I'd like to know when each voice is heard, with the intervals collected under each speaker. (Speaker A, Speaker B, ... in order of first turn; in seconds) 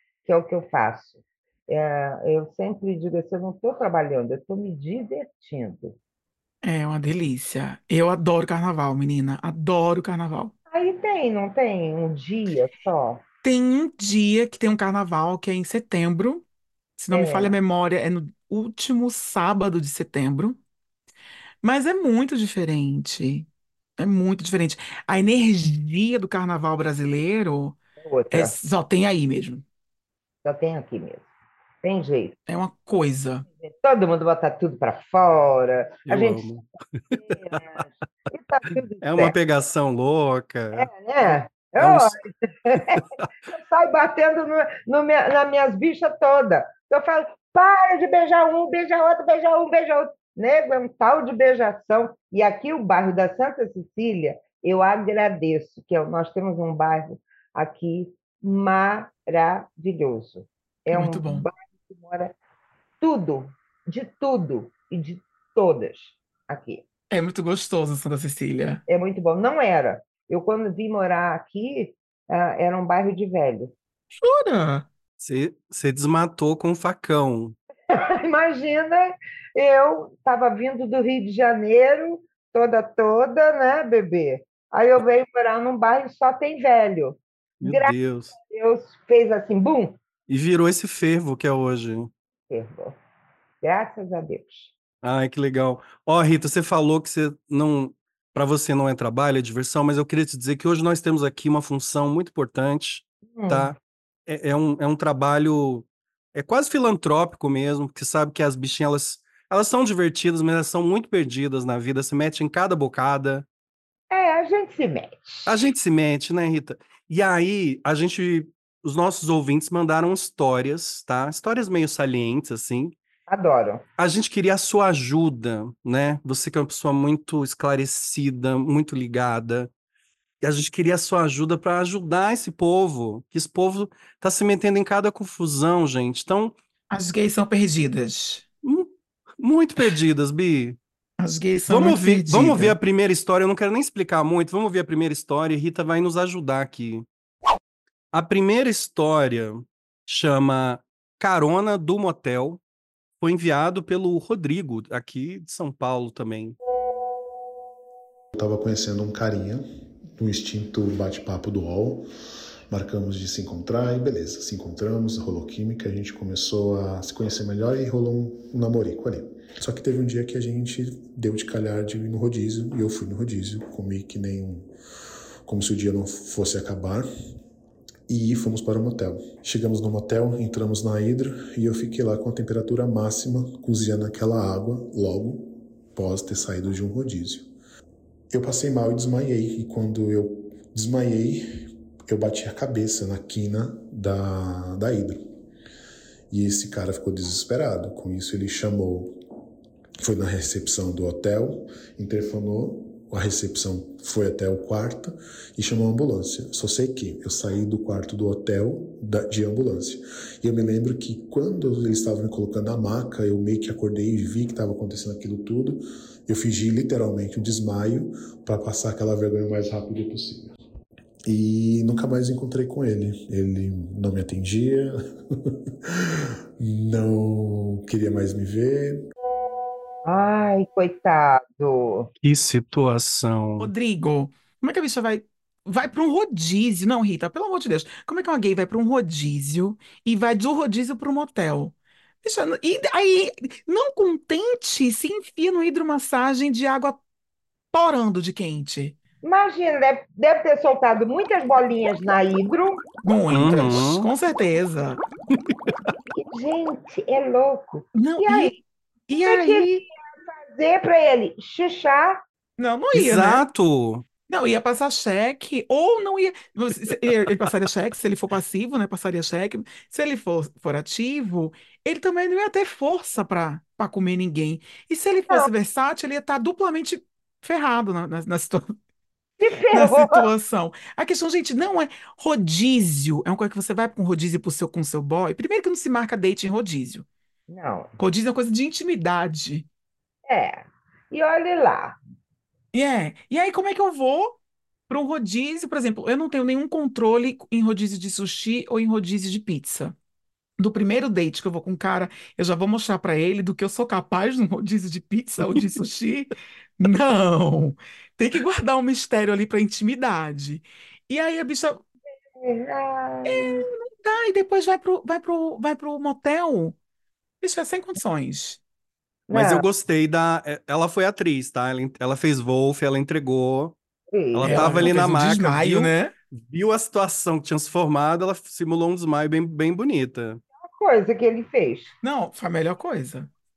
Speaker A: 0.2-5.9, 10.7-13.2, 17.1-17.5, 28.0-28.5, 30.4-31.3, 31.8-32.4, 33.6-36.5, 37.2-39.3, 40.7-43.0, 43.5-62.3, 63.0-66.8, 68.9-73.7, 77.9-90.0, 92.5-93.0, 93.6-94.7, 103.3-103.7, 114.1-115.5, 123.3-123.8, 230.1-232.1, 249.2-252.9, 256.1-258.5, 259.2-262.2, 279.4-280.3, 287.5-287.9, 290.3-292.0, 312.4-313.6, 319.3-319.6, 324.1-324.9, 330.6-331.9
Speaker B: 6.6-10.5, 13.4-16.4, 17.0-20.6, 21.6-23.5, 24.0-27.8, 28.3-29.6, 32.5-33.4, 60.9-61.5, 67.1-68.8, 74.2-74.9, 136.9-138.4, 141.2-142.8, 233.6-247.0, 247.7-248.9, 253.0-255.0, 257.9-259.8, 262.6-263.4, 264.3-278.8, 279.7-287.1, 288.0-289.7, 292.7-299.9, 300.6-311.8, 313.2-316.7, 317.4-318.6, 324.4-326.1, 332.0-333.3
Speaker C: 36.1-37.8, 39.0-42.1, 75.2-77.5, 87.6-88.3, 90.3-92.1, 95.0-103.7, 104.3-113.5, 115.5-122.9, 124.0-129.7, 130.4-136.6, 138.6-140.8, 141.7-147.1, 148.1-152.6, 153.2-156.6, 232.2-233.7, 253.3-254.1, 262.9-264.1, 319.3-323.7, 324.3-330.4
Speaker D: 158.3-159.6, 160.2-162.1, 162.7-174.7, 175.4-177.1, 178.1-187.5, 188.3-195.2, 196.3-199.1, 200.0-220.5, 221.2-229.0